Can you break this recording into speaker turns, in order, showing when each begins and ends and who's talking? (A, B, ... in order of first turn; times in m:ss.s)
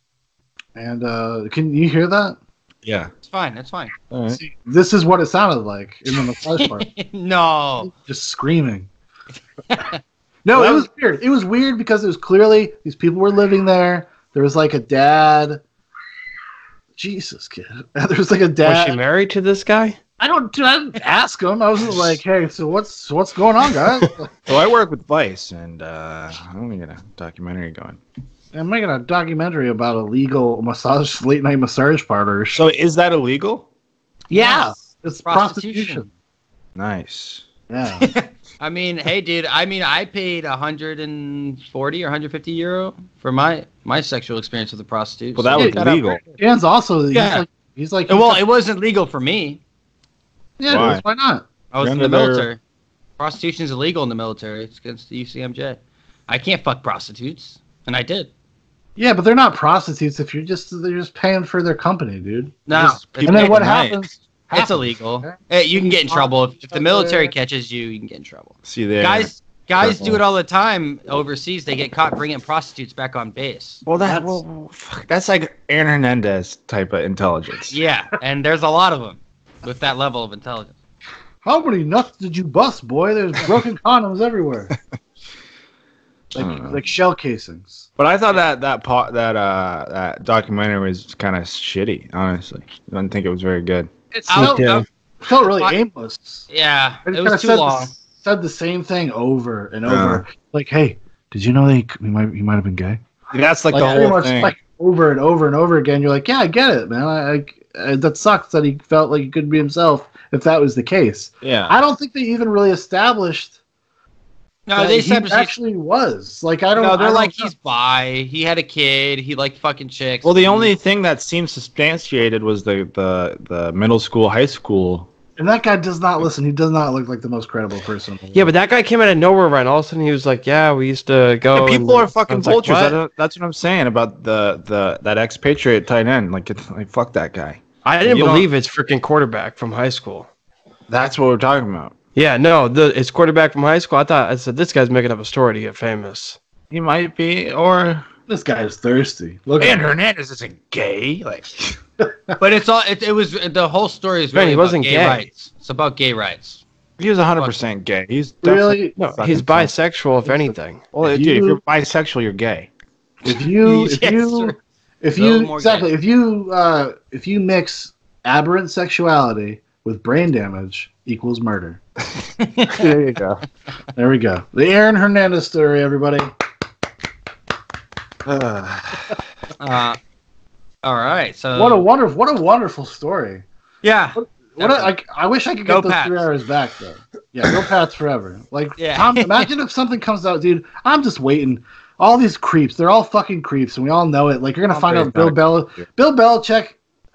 0:00.7-0:02.4 A
0:02.8-0:03.1 B
0:03.2-0:03.9 C
0:04.1-0:04.4 B
0:04.3-0:06.8 A
0:06.6-0:07.9 C
0:07.8-0:08.9 A
0:09.7-0:10.0 C
0:10.4-0:15.6 A
0:10.5-0:10.9 B
0:17.0-0:19.0 A
0:18.6-0:20.0 D
0:20.2-0:24.3 A
0:24.5-0:28.0 B
0:28.5-0:32.6 A
0:32.5-0:33.6 B
0:34.3-0:36.1 A
0:34.3-0:34.7 C
0:35.2-0:36.1 C
0:36.8-0:37.4 B
0:37.7-0:38.1 A
0:38.0-0:46.4 C
0:45.3-0:46.2 B
0:45.6-0:45.8 A
0:46.4-0:48.4 A
0:47.1-0:47.4 C
0:48.1-0:49.6 C
0:50.6-0:51.4 A
0:50.7-0:51.0 B
0:51.7-0:52.6 C
0:51.8-0:52.5 B
0:53.2-0:58.3 C
0:59.0-1:05.3 A
1:02.7-1:03.7 C
1:02.7-1:04.1 B
1:04.5-1:13.8 C
1:06.1-1:07.3 A
1:08.6-1:10.2 B
1:13.8-1:17.8 B
1:14.0-1:14.4 A
1:17.7-1:20.7 C
1:21.4-1:24.7 A
1:26.3-1:26.8 B
1:26.3-1:27.9 A
1:28.0-1:33.9 B
1:34.1-1:34.7 A
1:34.2-1:34.8 C
1:34.3-1:34.8 D
1:35.2-1:36.4 A
1:35.4-1:35.7 C
1:36.5-1:37.9 C
1:37.0-1:43.0 A
1:39.8-1:40.2 B
1:43.3-1:44.5 B
1:43.7-1:53.5 A
1:51.4-1:51.7 B
1:54.7-1:55.5 C
1:54.8-1:57.5 A
1:56.7-2:00.4 C
2:00.2-2:05.1 B
2:05.4-2:08.5 A
2:08.3-2:13.0 D
2:11.5-2:18.5 B
2:17.8-2:20.3 D
2:20.9-2:21.9 B
2:22.1-2:26.4 D
2:26.7-2:28.1 B
2:28.3-2:29.8 A
2:29.6-2:31.8 B
2:32.4-2:36.6 C
2:34.3-2:35.3 D
2:37.0-2:39.7 B
2:38.4-2:39.0 A
2:39.0-2:40.8 D
2:40.2-2:41.6 A
2:40.9-2:42.7 B
2:43.2-2:51.8 A
2:43.3-2:44.6 C
2:45.2-2:45.9 C
2:52.4-2:52.9 C
2:52.7-2:53.4 B
2:54.0-2:56.3 A
2:58.2-2:59.2 B
2:59.6-3:00.0 C
3:00.8-3:01.8 C
3:01.5-3:03.4 A
3:03.8-3:04.9 C
3:04.2-3:16.8 A
3:05.6-3:06.2 C
3:08.8-3:09.5 C
3:14.7-3:15.8 B